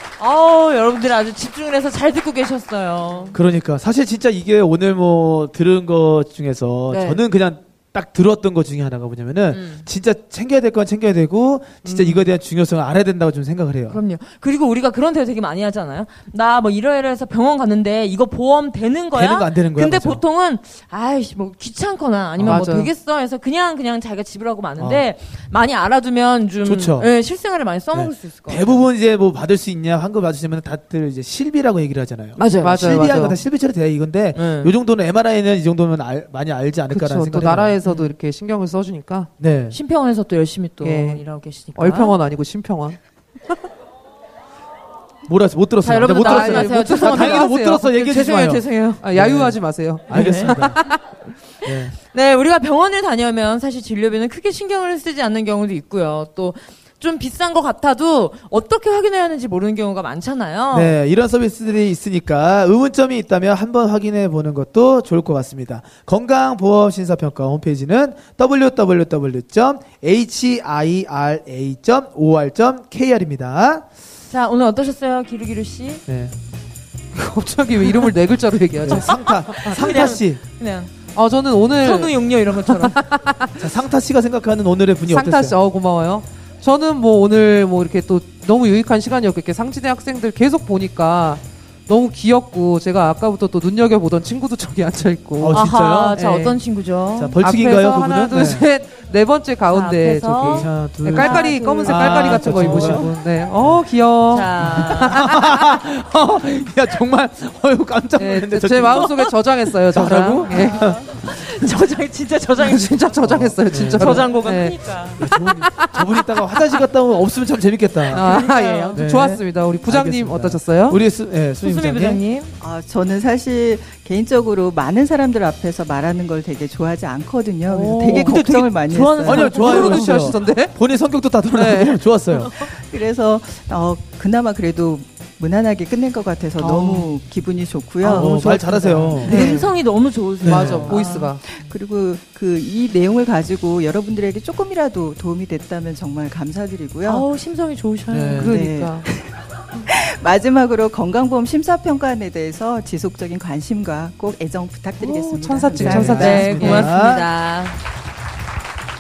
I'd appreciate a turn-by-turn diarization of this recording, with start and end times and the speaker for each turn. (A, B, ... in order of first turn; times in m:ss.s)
0:00.2-0:03.4 A
0:03.3-0:14.0 B
0:06.9-0:07.2 A
0:09.5-0:09.8 A
0:11.8-0:12.3 C
0:13.9-0:28.9 A
0:19.1-0:20.2 B
0:22.4-0:22.7 B
0:22.4-0:22.9 C
0:24.8-0:25.0 B
0:26.6-0:27.1 B
0:27.9-0:37.8 B
0:32.4-0:33.2 A
0:32.6-0:33.4 C
0:34.3-0:34.8 A
0:36.9-0:39.3 C
0:37.8-0:38.1 A
0:39.4-0:39.8 B
0:39.7-0:42.2 A
0:40.8-0:43.0 C
0:45.3-0:50.8 B
0:45.8-0:49.0 A
0:46.2-0:47.9 C
0:49.0-0:51.0 C
0:50.1-0:50.6 A
0:51.6-1:01.0 A
0:51.6-0:52.0 B
1:00.7-1:13.8 B
1:14.3-1:16.0 A
1:16.1-1:16.4 B
1:17.1-1:19.1 C
1:18.8-1:20.4 B
1:18.9-1:20.9 A
1:21.2-1:23.5 C
1:21.8-1:23.0 A
1:23.6-1:25.6 B
1:25.1-1:36.6 C
1:35.4-1:36.2 B
1:35.5-1:37.4 A
1:37.2-1:38.7 B
1:37.4-1:45.8 C
1:39.7-1:43.2 A
1:40.4-1:43.8 B
1:44.3-1:45.3 A
1:44.6-1:49.1 B
1:48.2-1:50.9 C
1:48.9-1:49.3 A
1:49.9-1:51.0 B
1:50.0-1:53.2 A
1:52.6-1:56.1 C
1:53.2-1:54.3 B
1:54.0-1:55.3 A
1:55.2-1:58.4 B
1:58.1-1:59.0 A
1:58.1-2:01.0 C
1:59.0-2:02.2 B
2:01.6-2:02.5 A
2:02.6-2:09.6 D
2:07.7-2:08.6 C
2:08.0-2:08.7 B
2:08.1-2:10.4 A
2:09.2-2:12.6 B
2:09.3-2:10.7 C
2:11.5-2:12.1 C
2:12.5-2:19.7 D
2:16.6-2:17.1 A
2:18.0-2:18.4 A
2:18.1-2:19.6 B
2:19.2-2:21.3 A
2:20.4-2:21.0 B
2:20.4-2:21.4 C
2:21.4-2:27.3 D
2:27.0-2:28.5 A
2:28.1-2:28.5 B
2:28.4-2:29.0 C
2:28.5-2:36.6 D
2:35.0-2:36.9 C
2:35.7-2:37.3 B
2:36.0-2:37.8 A